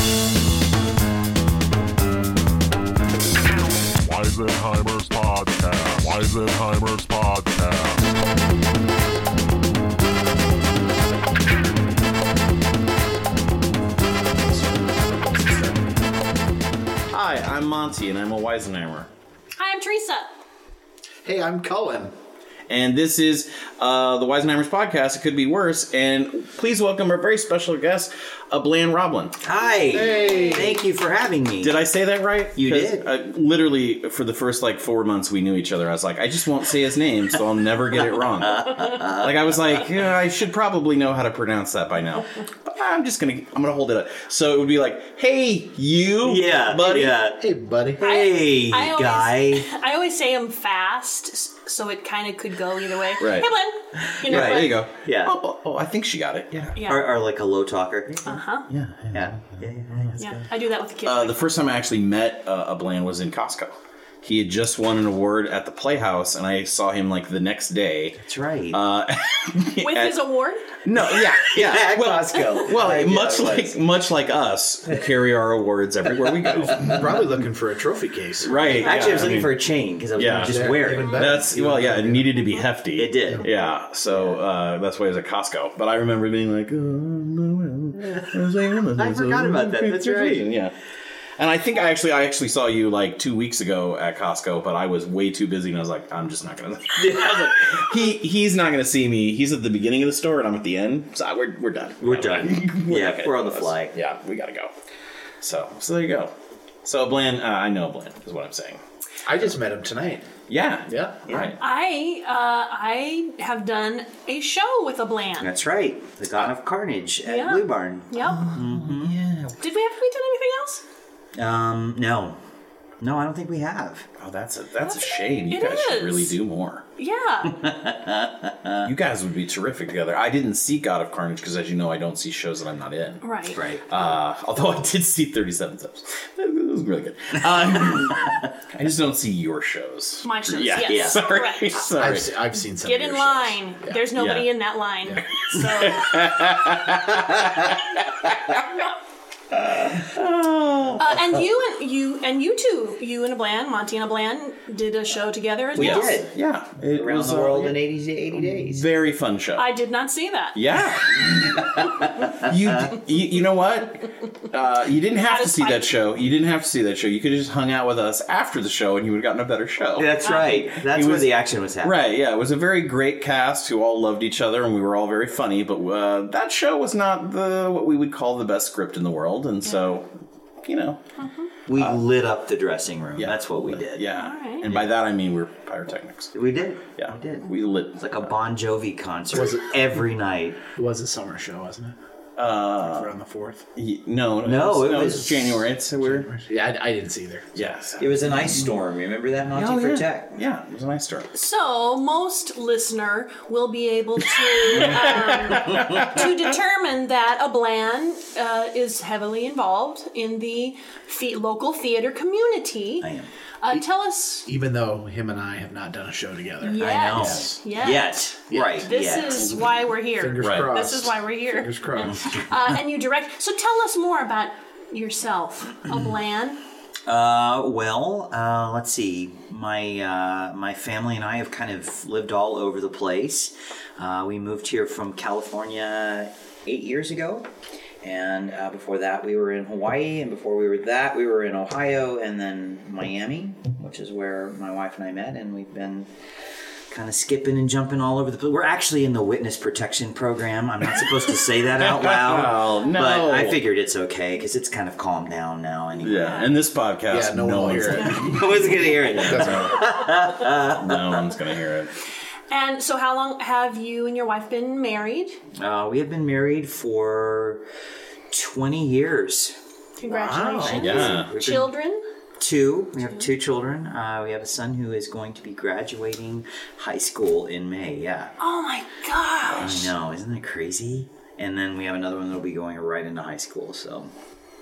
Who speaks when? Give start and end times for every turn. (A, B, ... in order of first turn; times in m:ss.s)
0:04.0-0:08.0 A
0:14.4-0:16.0 B
0:17.1-0:19.1 B
0:19.6-0:20.3 C
0:21.2-0:22.1 D
0:22.7-0:29.4 B
0:29.4-0:31.7 E
0:29.9-0:30.8 D
0:30.2-0:30.6 C
0:31.6-0:47.2 B
0:32.6-0:33.1 E
0:38.0-0:39.8 E
0:46.2-0:47.4 E
0:47.1-0:48.0 D
0:48.0-0:49.7 E
0:48.0-0:54.8 C
0:53.2-0:53.5 B
0:54.0-0:55.4 E
0:54.3-0:56.8 B
0:56.8-0:57.1 C
0:56.8-0:58.4 E
0:58.3-0:58.7 C
0:58.7-1:00.2 B
0:59.1-1:00.5 E
1:00.2-1:01.4 C
1:01.0-1:10.2 B
1:08.2-1:08.8 E
1:09.8-1:10.7 C
1:10.8-1:17.4 B
1:11.1-1:13.8 E
1:16.2-1:17.0 E
1:16.8-1:18.8 D
1:18.4-1:30.7 B
1:18.6-1:19.4 C
1:18.7-1:21.3 E
1:20.2-1:22.4 D
1:23.0-1:24.4 E
1:29.0-1:30.5 E
1:31.4-1:44.7 B
1:37.0-1:37.9 E
1:42.0-1:44.0 E
1:45.4-1:46.3 B
1:46.8-1:48.8 B
1:49.3-1:50.3 D
1:50.5-1:51.6 B
1:50.9-1:51.5 D
1:51.6-1:55.5 C
1:55.4-1:59.2 E
1:57.3-1:58.6 C
1:59.6-2:00.8 C
2:01.4-2:02.4 E
2:03.0-2:04.1 E
2:04.2-2:06.8 B
2:04.8-2:06.4 C
2:07.0-2:07.7 C
2:07.6-2:08.9 E
2:08.8-2:22.3 B
2:13.2-2:13.6 C
2:13.5-2:13.8 E
2:17.6-2:18.5 E
2:20.2-2:21.8 C
2:20.8-2:21.2 E
2:22.0-2:24.0 D
2:22.7-2:26.2 C
2:24.1-2:24.5 B
2:25.6-2:28.6 B
2:29.6-2:31.2 B
2:31.0-2:36.2 C
2:35.7-2:36.3 E
2:35.8-2:37.8 B
2:36.9-2:38.9 E
2:38.4-2:39.7 B
2:39.6-2:40.6 C
2:40.6-3:00.1 B
2:41.6-2:42.5 E
2:45.2-2:45.9 C
2:50.0-2:52.0 E
2:50.3-2:50.5 C
3:00.6-3:01.0 B
3:01.2-3:01.5 C
3:01.7-3:04.1 E
3:03.2-3:06.3 B
3:04.1-3:04.8 C
3:06.3-3:10.6 E
3:07.0-3:08.0 B
3:09.3-3:09.8 D
3:10.8-3:12.0 D
3:12.4-3:13.1 B
3:12.8-3:13.7 D
3:13.8-3:16.3 B
3:14.4-3:15.7 E
3:16.0-3:17.6 D
3:17.6-3:18.6 B
3:18.0-3:20.4 E
3:19.6-3:21.3 B
3:21.3-3:33.1 C
3:24.7-3:26.3 B
3:33.0-3:33.3 E
3:33.6-3:34.5 C
3:34.5-3:37.6 D
3:36.6-3:46.6 C
3:36.8-3:39.5 E
3:38.5-3:38.8 D
3:39.3-3:39.6 B
3:40.2-3:42.4 D
3:40.4-3:40.7 B
3:47.1-3:57.5 E
3:58.0-4:06.1 E
4:06.9-4:16.4 E
4:11.7-4:13.6 B
4:16.0-4:21.9 B
4:16.2-4:16.5 C
4:17.1-4:19.7 D
4:18.1-4:21.3 E
4:22.5-4:25.4 C
4:25.6-4:27.6 E
4:28.3-4:29.6 E
4:30.0-4:32.0 C
4:30.1-4:30.8 D
4:30.1-4:31.7 E
4:30.7-4:31.3 B
4:32.4-4:38.3 E
4:38.4-4:39.9 C
4:39.5-4:44.1 E
4:39.6-4:39.8 B